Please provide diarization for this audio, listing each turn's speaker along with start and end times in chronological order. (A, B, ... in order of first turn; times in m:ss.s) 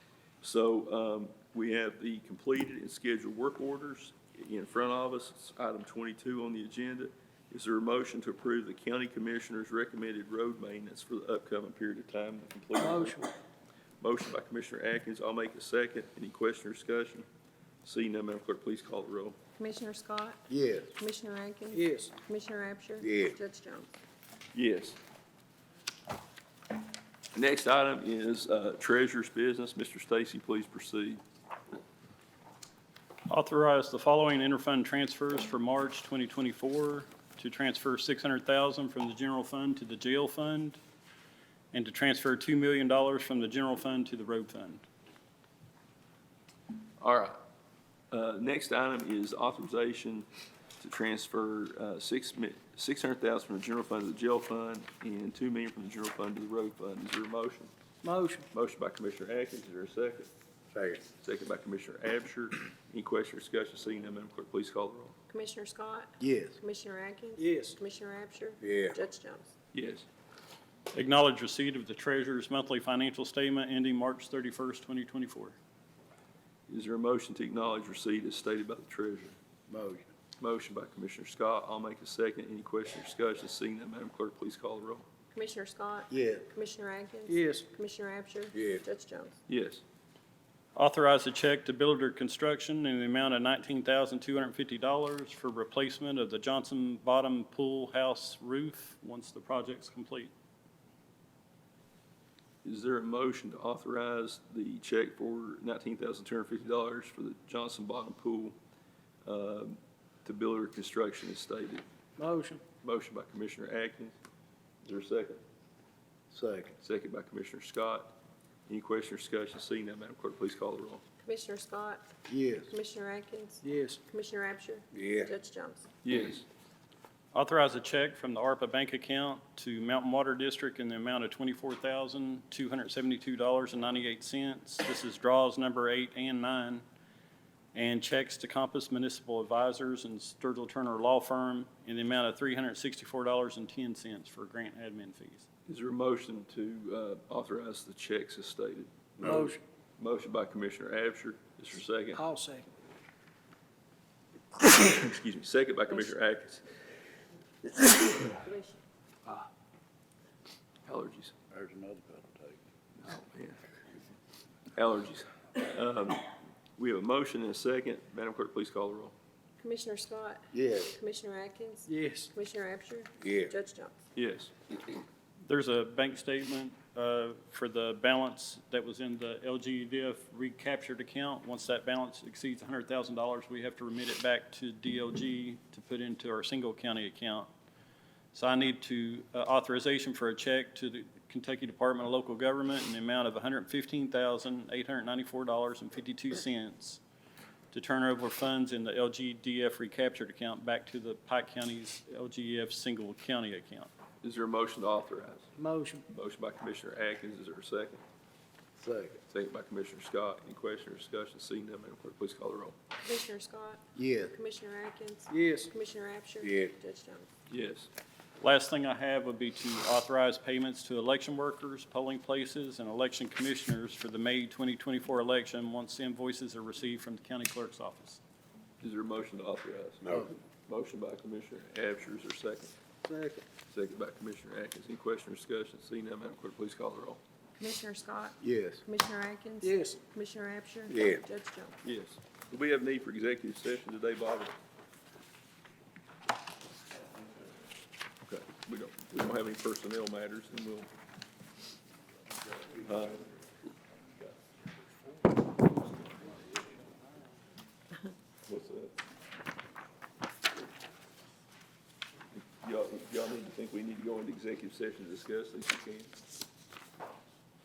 0:00.4-0:13.3 A
0:12.8-0:13.3 B
0:14.0-0:17.2 A
0:17.8-0:19.4 A
0:19.6-0:20.4 C
0:20.5-0:20.9 D
0:21.0-0:23.9 C
0:21.7-0:22.2 B
0:23.0-0:23.4 D
0:24.5-0:25.0 A
0:27.3-0:31.2 A
0:33.3-0:40.8 E
0:41.7-0:44.8 E
0:47.0-0:47.4 A
0:48.1-0:50.3 A
0:50.8-0:57.7 A
0:58.0-0:58.5 B
0:58.5-1:00.3 A
1:00.7-1:01.0 D
1:01.2-1:05.2 A
1:05.3-1:09.5 C
1:06.2-1:06.6 D
1:07.4-1:07.8 B
1:08.6-1:09.0 D
1:09.7-1:10.0 A
1:10.9-1:15.6 E
1:16.7-1:19.4 A
1:19.7-1:20.1 D
1:20.4-1:25.0 A
1:25.3-1:29.4 C
1:26.1-1:26.5 D
1:27.3-1:27.6 B
1:28.6-1:28.8 D
1:29.5-1:29.8 A
1:30.8-1:40.3 E
1:42.6-1:48.6 A
1:49.2-1:51.8 A
1:52.2-1:52.6 B
1:52.8-1:54.2 A
1:54.8-1:55.4 A
1:56.3-1:56.7 D
1:56.8-1:58.2 A
1:58.7-2:01.0 A
2:01.2-2:02.1 C
2:02.3-2:02.7 D
2:02.7-2:05.9 C
2:03.6-2:04.0 B
2:04.9-2:05.3 D
2:06.0-2:06.4 A
2:07.3-2:16.8 E
2:17.7-2:25.5 E
2:25.7-2:29.5 A
2:29.2-2:29.6 B
2:30.0-2:32.3 A
2:32.1-2:32.7 B
2:34.6-2:36.7 A
2:38.3-2:38.8 C
2:40.9-2:41.3 A
2:41.5-2:42.6 D
2:43.0-2:43.7 A
2:44.7-2:49.2 A
2:49.6-2:54.0 C
2:50.5-2:50.9 D
2:51.9-2:52.3 B
2:54.2-2:54.7 A
2:55.4-3:07.5 E
3:08.3-3:17.0 E
3:17.7-3:23.9 E
3:24.2-3:25.5 A
3:25.6-3:26.0 B
3:26.1-3:28.0 A
3:28.8-3:29.2 D
3:29.3-3:32.8 A
3:33.0-3:37.3 C
3:34.0-3:34.4 D
3:35.3-3:35.7 B
3:36.4-3:36.7 D
3:37.5-3:37.9 A
3:38.4-3:48.2 E
3:48.8-3:52.7 A
3:50.0-3:50.3 D
3:53.1-3:53.4 B
3:53.7-3:57.2 A
3:57.6-4:01.8 C
3:58.4-3:58.8 D
3:59.6-4:00.0 B
4:00.9-4:01.2 D
4:01.8-4:04.6 A
4:08.3-4:10.9 A
4:12.7-4:13.3 A
4:18.4-4:19.0 A
4:22.3-4:26.2 A